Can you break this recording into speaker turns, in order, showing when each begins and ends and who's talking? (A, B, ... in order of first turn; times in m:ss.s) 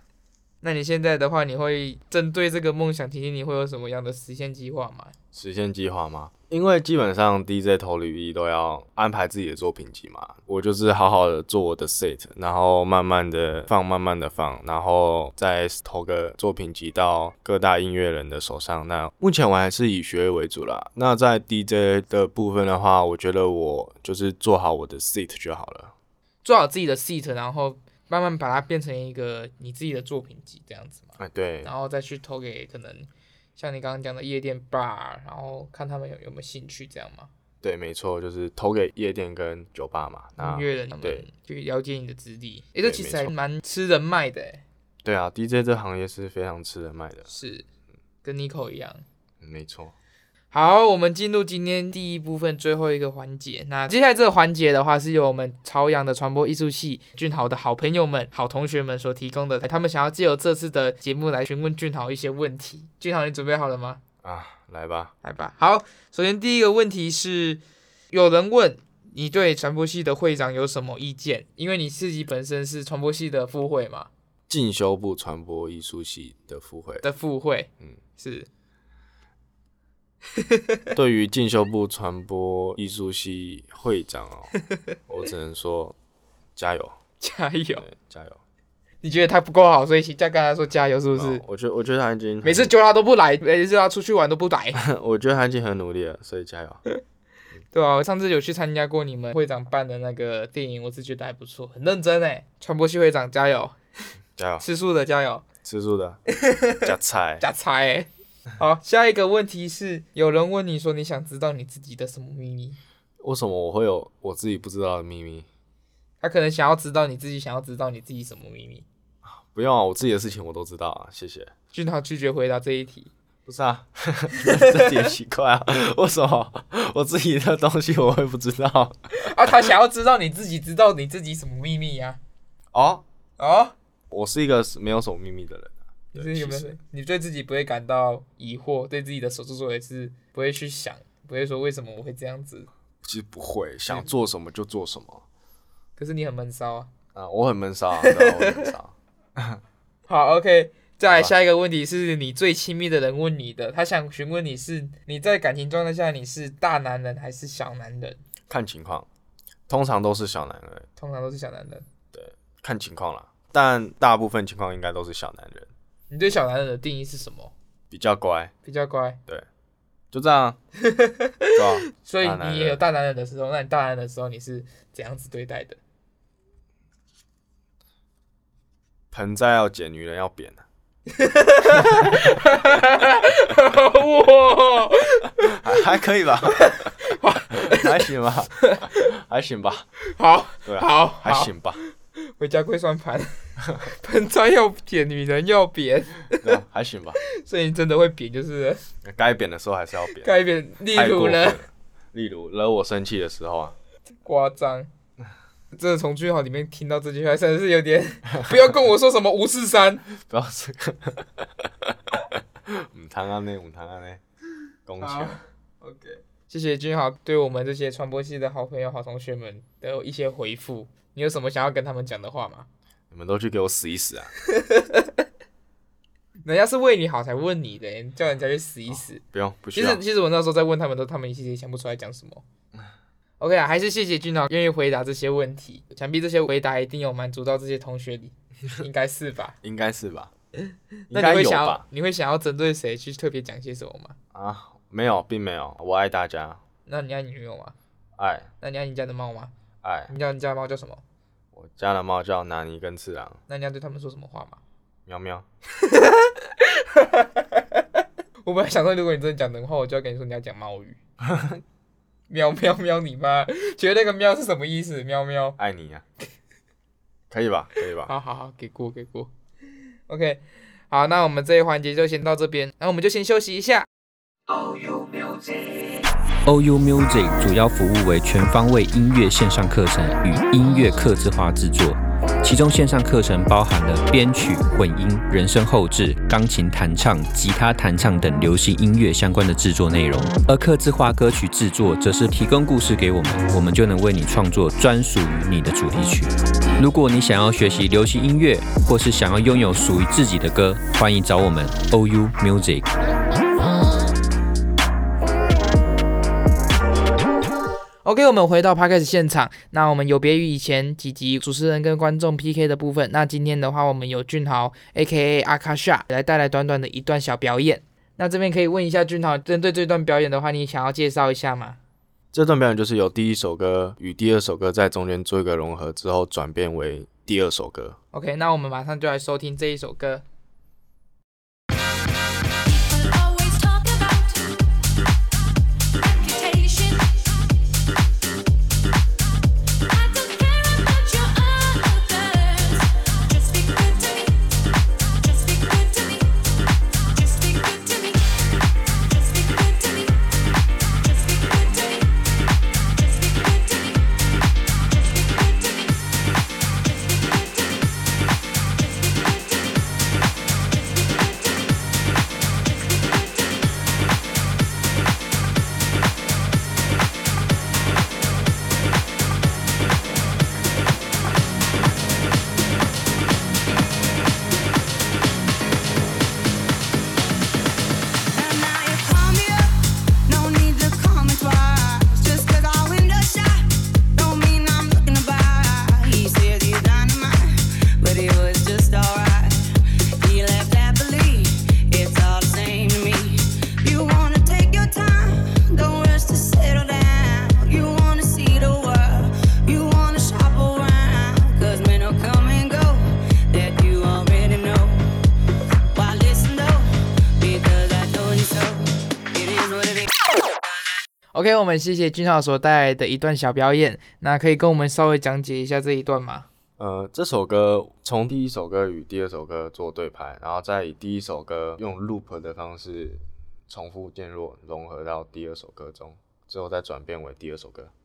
0:00.6-0:05.1 A
0:05.3-0:25.9 B
0:26.4-0:37.3 A
0:31.2-0:31.7 B
0:37.6-0:41.3 B
0:40.4-0:44.6 A
0:42.8-0:43.3 B
0:45.0-0:47.3 B
0:47.3-0:47.6 A
0:48.2-0:49.0 A
0:49.4-0:49.9 B
0:50.5-1:04.0 A
1:04.2-1:05.1 B
1:05.2-1:14.1 A
1:14.5-1:17.0 B
1:17.0-1:18.5 A
1:20.4-1:20.8 A
1:20.9-1:24.5 B
1:25.1-1:26.0 B
1:26.6-1:27.0 B
1:27.2-1:27.8 A
1:27.8-1:28.4 B
1:29.0-1:31.4 A
1:31.1-1:32.7 B
1:32.4-1:34.8 A
1:34.7-1:36.8 B
1:37.7-1:43.8 A
1:44.4-1:44.6 B
1:44.6-1:45.4 A
1:45.6-1:46.2 B
1:46.3-1:46.9 A
1:46.8-1:47.4 B
1:47.4-1:52.8 A
1:53.2-1:55.5 B
1:56.2-1:58.8 A
1:59.2-2:01.5 B
2:01.7-2:03.1 A
2:03.4-2:09.3 B
2:04.4-2:04.9 A
2:09.1-2:12.2 A
2:12.7-2:13.0 B
2:13.4-2:13.7 A
2:14.1-2:16.8 B
2:16.1-2:22.7 A
2:23.0-2:25.2 B
2:26.0-2:26.9 A
2:27.1-2:29.6 B
2:28.0-2:28.7 A
2:30.1-2:38.2 A
2:31.1-2:31.3 B
2:38.5-2:39.1 B
2:39.7-2:40.9 B
2:41.0-2:41.8 A
2:42.1-2:45.7 B
2:46.1-2:47.5 A
2:47.9-2:48.5 B
2:48.6-2:49.2 A
2:50.1-2:50.6 B
2:50.8-2:55.8 A
2:51.5-2:52.8 B
2:59.1-3:00.6 B
3:01.1-3:05.7 A
3:05.4-3:06.9 B
3:06.4-3:08.0 A
3:07.5-3:09.9 B
3:08.6-3:09.0 A
3:10.0-3:16.6 A
3:10.6-3:11.8 B
3:16.4-3:17.2 B
3:17.2-3:18.8 A
3:19.0-3:20.3 B
3:20.2-3:21.6 A
3:20.8-3:23.8 B
3:24.2-3:24.9 A
3:25.7-3:30.0 A
3:30.2-3:34.2 B
3:34.8-3:35.4 B
3:35.0-3:42.7 A
3:43.1-3:44.3 B
3:44.5-3:45.2 A
3:46.4-3:49.2 A
3:49.2-3:50.0 B
3:49.7-3:52.4 A
3:53.4-3:59.6 A
3:59.6-4:00.3 B
4:00.7-4:04.2 A
4:01.1-4:01.8 B
4:04.3-4:06.6 B
4:06.8-4:07.7 A
4:08.2-4:08.5 B
4:08.6-4:09.5 A
4:09.8-4:10.1 B
4:10.1-4:11.0 A
4:11.5-4:13.4 B
4:13.5-4:14.6 A
4:15.0-4:15.4 B
4:15.8-4:17.8 A
4:18.4-4:21.0 A
4:21.2-4:21.6 B
4:22.3-4:25.6 A
4:25.6-4:26.0 B
4:27.3-4:28.1 B
4:28.0-4:29.3 A
4:30.1-4:33.9 A
4:36.4-5:02.9 C
5:08.0-5:21.8 A
5:22.3-5:28.0 B
5:28.1-5:30.2 A
5:32.6-5:34.7 D
5:35.9-5:37.5 D
5:39.9-5:44.5 D
5:45.2-5:46.4 D
5:47.1-5:48.4 D
5:48.9-5:50.3 D
5:50.9-5:52.2 D
5:52.9-5:54.1 D
5:54.8-5:56.0 D
5:56.8-5:57.9 D
5:58.8-5:59.8 D
6:00.7-6:01.1 D
6:18.3-6:45.2 E
6:45.9-6:50.1 E
6:51.3-6:56.5 A
6:56.8-7:07.9 B